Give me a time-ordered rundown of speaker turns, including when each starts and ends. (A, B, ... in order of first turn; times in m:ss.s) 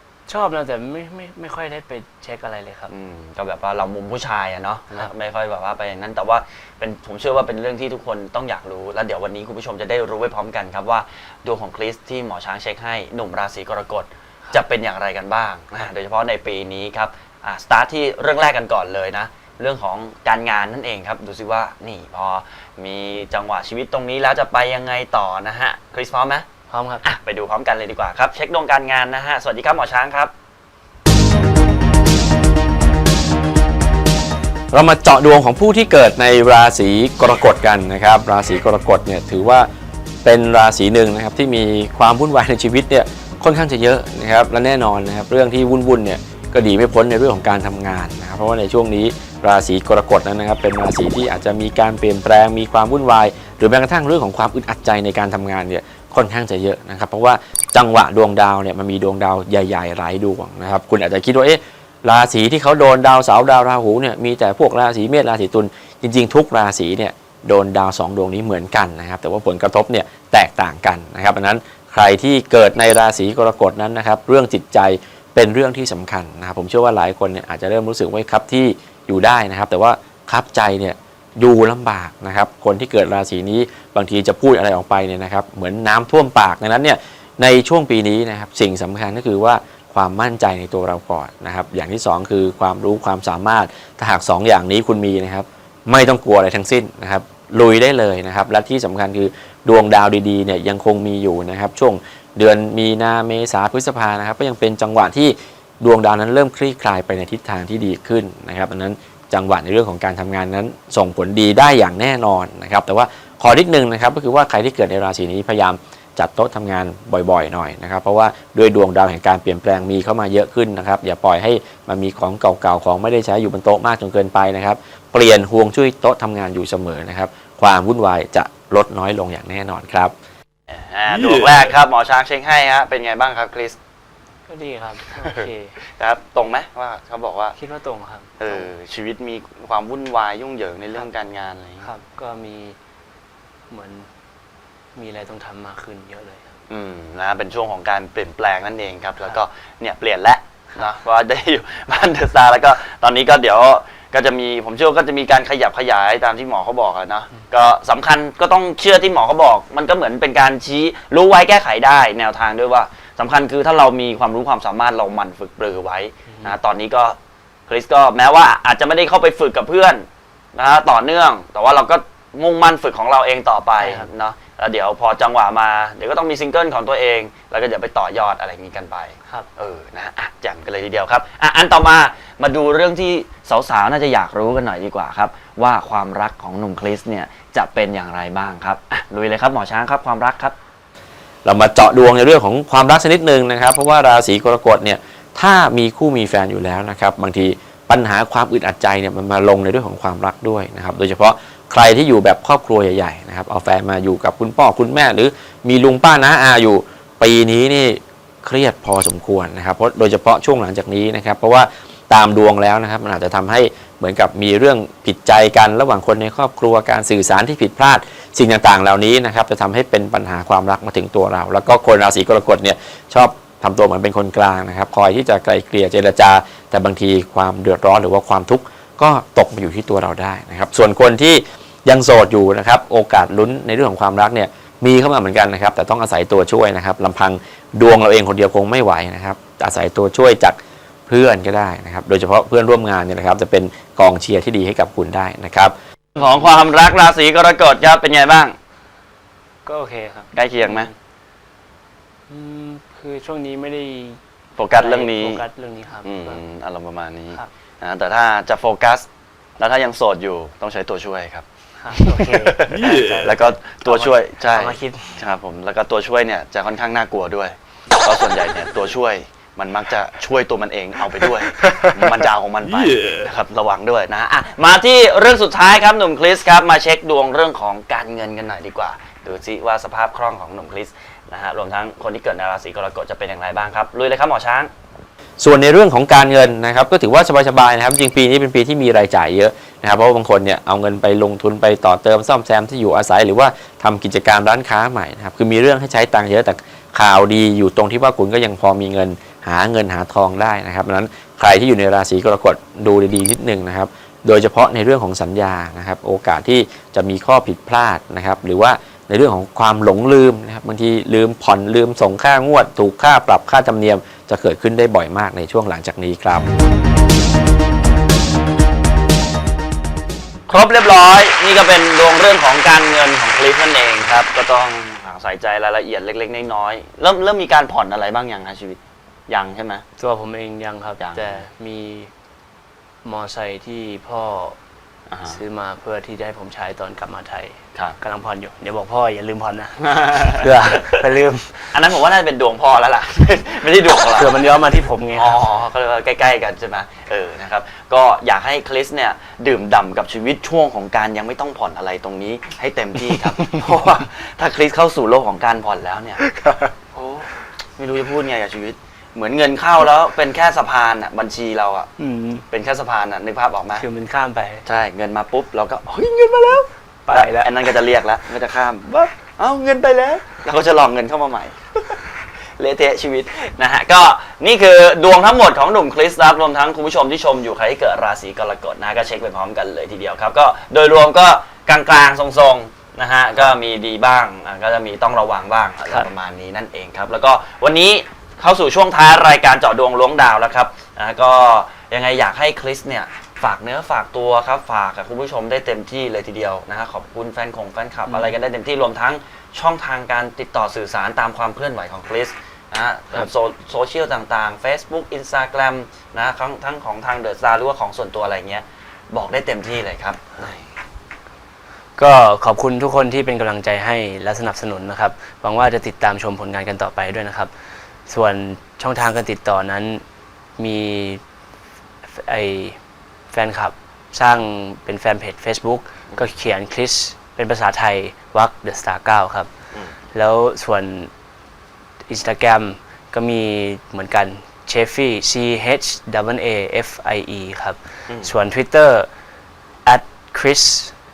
0:00.3-0:02.9 A
0:02.9-0:26.4 B
0:26.7-0:27.1 A
0:27.0-0:30.3 B
0:34.7-0:39.7 C
0:40.2-2:10.1 C
2:10.7-2:13.8 B
2:14.5-2:15.8 A
2:16.0-2:17.6 B
2:17.6-2:18.7 A
2:18.4-2:21.9 B
2:21.8-2:22.8 A
2:23.7-2:24.1 A
2:25.0-2:26.5 A
2:26.7-2:47.2 B
2:46.3-2:46.6 A
2:47.7-3:10.6 B
2:53.8-2:54.1 A
3:11.4-4:05.7 C
4:06.2-4:08.6 B
4:09.7-4:10.9 A
4:10.3-4:10.9 B
4:12.3-4:16.4 A
4:14.6-4:15.4 B
4:16.0-4:19.0 B
4:19.6-4:22.2 B
4:21.8-4:25.3 A
4:22.8-4:44.7 B
4:45.4-5:16.4 C
5:20.5-5:29.8 B
5:30.0-5:32.1 A
5:31.0-5:31.4 B
5:33.0-5:34.6 A
5:35.1-5:35.4 B
5:35.2-5:41.8 A
5:39.9-5:40.4 B
5:41.7-5:44.3 B
5:44.0-5:45.4 A
5:45.2-5:56.2 B
5:56.4-5:56.6 A
5:56.9-6:01.9 B
6:02.0-6:02.4 A
6:02.5-6:03.8 B
6:03.8-6:04.6 A
6:04.7-6:12.0 B
6:07.1-6:07.7 A
6:12.6-6:50.6 B
6:38.1-6:38.4 A
6:52.0-6:57.5 A
6:58.1-7:00.0 A
7:00.6-7:01.2 A
7:02.0-7:02.8 A
7:03.3-7:09.5 A
7:10.1-7:11.1 A
7:12.1-7:19.1 A
7:19.9-7:20.9 A